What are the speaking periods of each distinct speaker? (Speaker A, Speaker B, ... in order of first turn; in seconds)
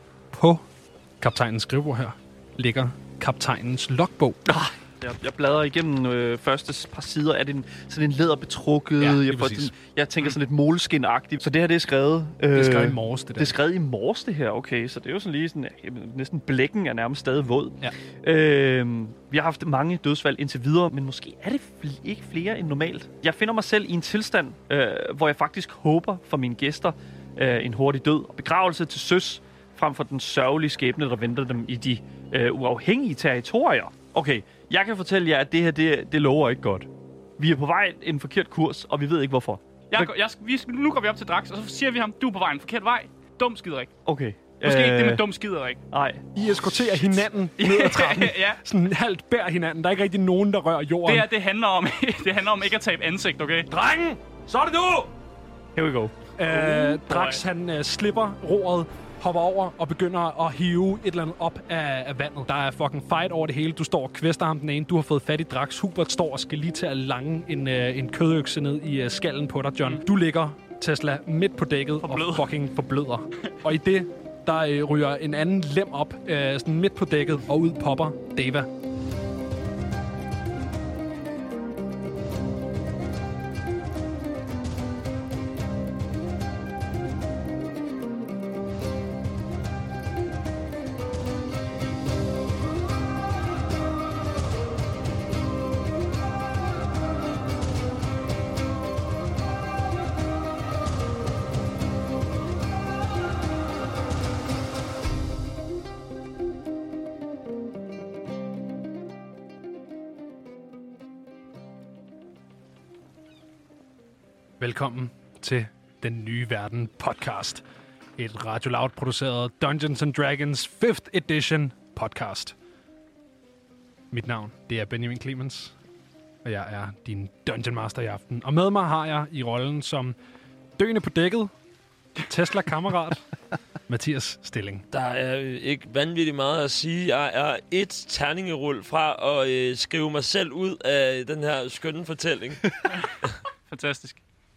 Speaker A: 0.3-0.6, 1.2-4.4, 9.0-9.7, 12.5-13.6, 46.3-51.3, 53.7-55.1, 56.4-78.7, 114.6-117.6, 118.2-122.5, 124.1-125.7, 126.4-130.1, 130.8-131.5, 132.2-133.2, 133.9-134.8
Speaker B: 4.5-40.1, 44.0-45.2, 45.9-46.3, 55.7-56.1
Speaker C: 39.9-43.9, 44.6-45.8, 47.6-48.6, 51.0-53.7, 56.5-57.4, 72.0-72.5, 143.7-144.2
Speaker D: 134.9-142.7